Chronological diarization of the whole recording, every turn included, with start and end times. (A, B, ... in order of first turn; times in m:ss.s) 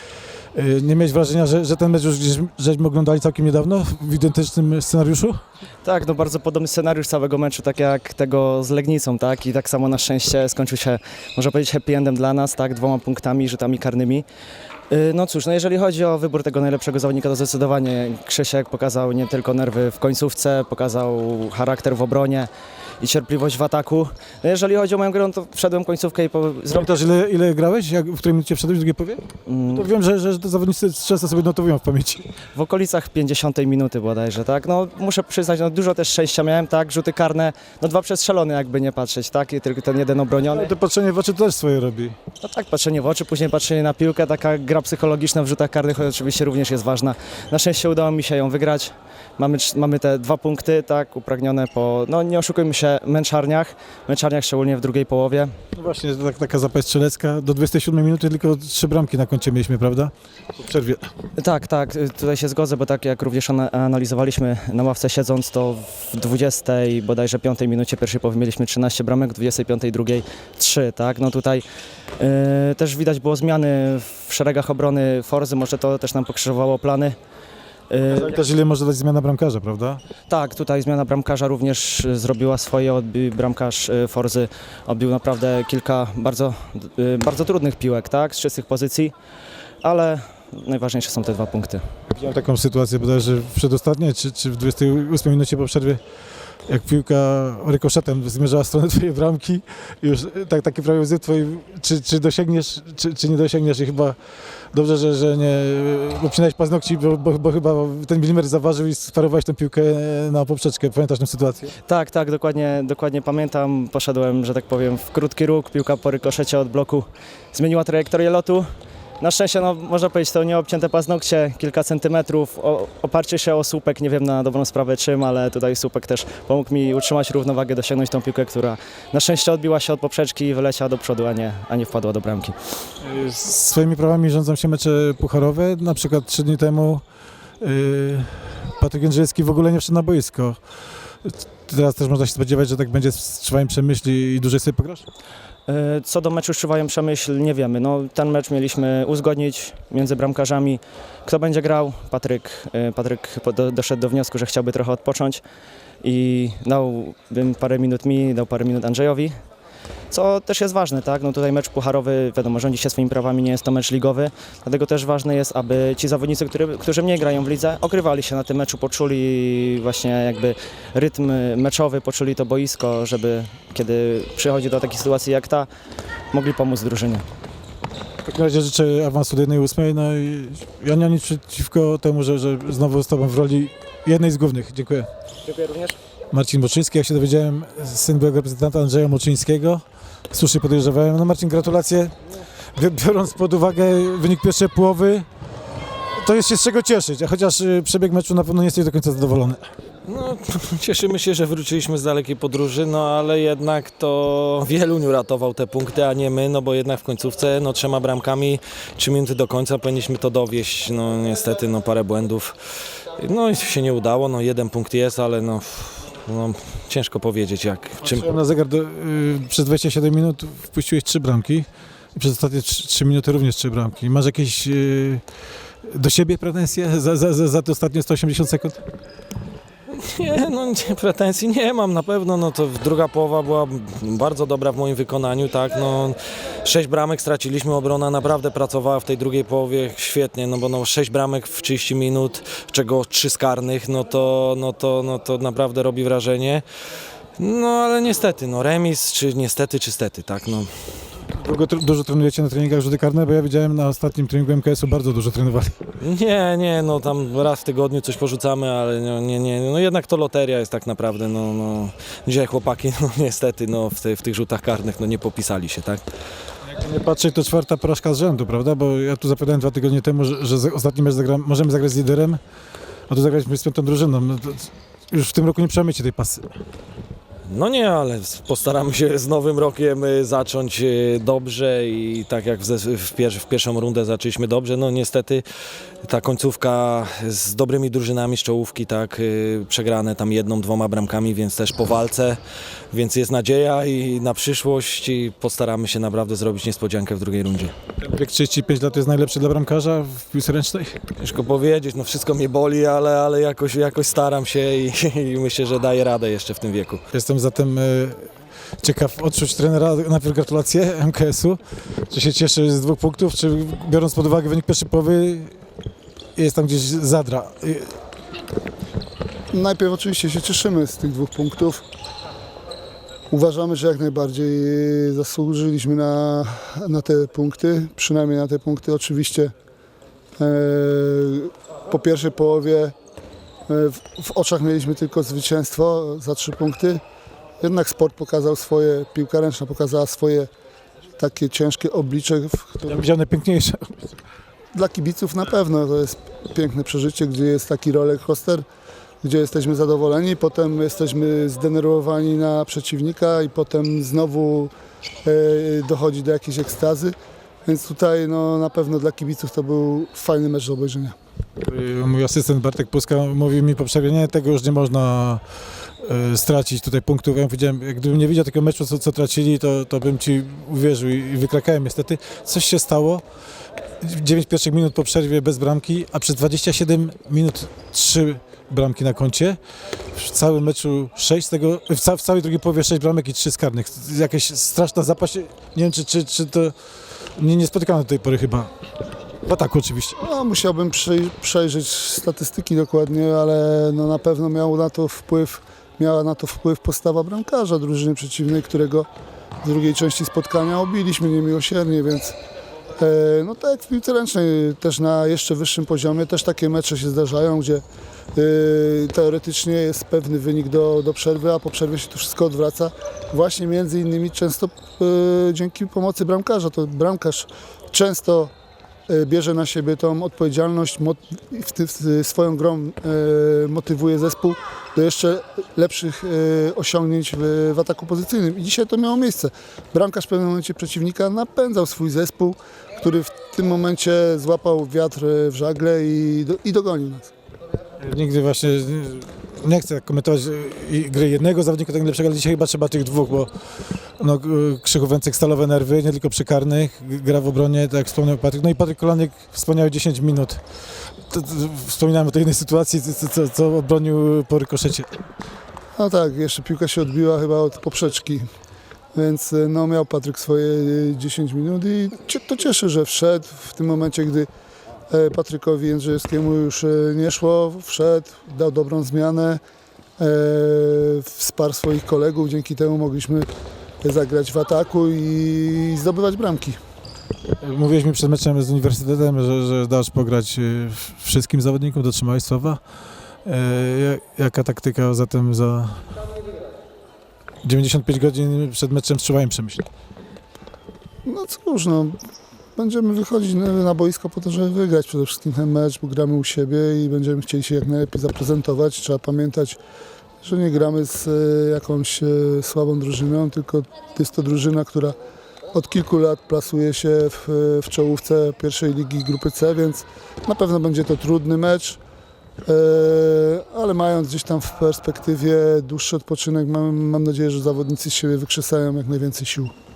0:00.6-0:05.4 A
0:05.8-0:14.3 B
0:14.9-0:26.9 B
0:26.7-0:32.2 A
0:29.5-0:29.9 B
0:32.5-0:40.7 B
0:40.5-0:42.2 A
0:42.4-0:55.5 B
0:55.8-1:01.1 A
1:01.4-1:11.6 B
1:12.2-1:17.2 B
1:17.9-1:18.4 B
1:18.1-1:20.0 A
1:20.3-1:29.1 B
1:29.8-1:31.8 B
1:32.2-1:36.0 A
1:36.7-1:44.2 A
1:44.7-1:51.7 A
1:51.9-1:58.7 B
1:59.2-2:12.6 B
2:13.0-2:17.0 A
2:17.6-2:20.6 A
2:21.2-2:25.0 A
2:25.7-2:35.4 B
2:36.0-2:39.3 B
2:40.1-2:55.7 B
2:56.3-2:57.2 B
2:58.2-3:05.1 A
3:05.4-3:06.0 B
3:06.3-3:12.1 A
3:12.8-3:15.3 A
3:16.2-3:19.7 A
3:20.0-3:32.6 C
3:33.2-3:38.3 C
3:38.0-3:45.2 A
3:45.8-3:48.8 A
3:49.9-4:06.6 C
4:07.4-4:10.9 C
4:11.3-4:15.9 A
4:16.0-4:26.0 C
4:26.7-4:32.4 A
4:33.1-4:36.5 A
4:37.5-4:45.4 C
4:46.0-4:52.4 C
4:52.9-4:57.8 C
4:58.0-5:01.0 A
5:01.2-5:07.0 C
5:07.1-5:08.3 A
5:08.8-5:11.6 A
5:12.1-5:15.5 A
5:16.4-5:18.0 A
5:19.5-5:21.8 D
5:23.3-5:29.5 D
5:30.4-5:33.0 D
5:33.7-5:37.0 D
5:37.6-5:40.5 D
5:41.2-5:43.0 D
5:42.9-5:44.2 A
5:44.8-5:48.7 D
5:49.2-5:54.7 D
5:55.2-6:01.2 D
6:01.6-6:05.4 A
6:06.0-6:13.2 A
6:14.0-6:19.6 A
6:20.1-6:26.7 A
6:27.4-6:28.7 A
6:29.4-6:30.2 A
6:30.2-6:39.1 D
6:39.6-6:42.4 D
6:43.0-6:47.8 D
6:48.4-6:58.5 D
6:59.1-7:17.3 D
7:18.0-7:23.5 A
7:24.2-7:30.6 A
7:31.3-7:35.2 A
7:36.0-7:38.5 D
7:39.2-7:44.5 D
7:45.1-7:49.6 D
7:50.2-7:53.5 D
7:54.0-7:56.8 D
7:57.6-8:02.8 A
8:03.4-8:06.0 A
8:07.6-8:09.9 A
8:11.2-8:12.2 D
8:12.8-8:19.8 D
8:20.4-8:25.2 D
8:25.7-8:32.0 D
8:32.6-8:39.7 D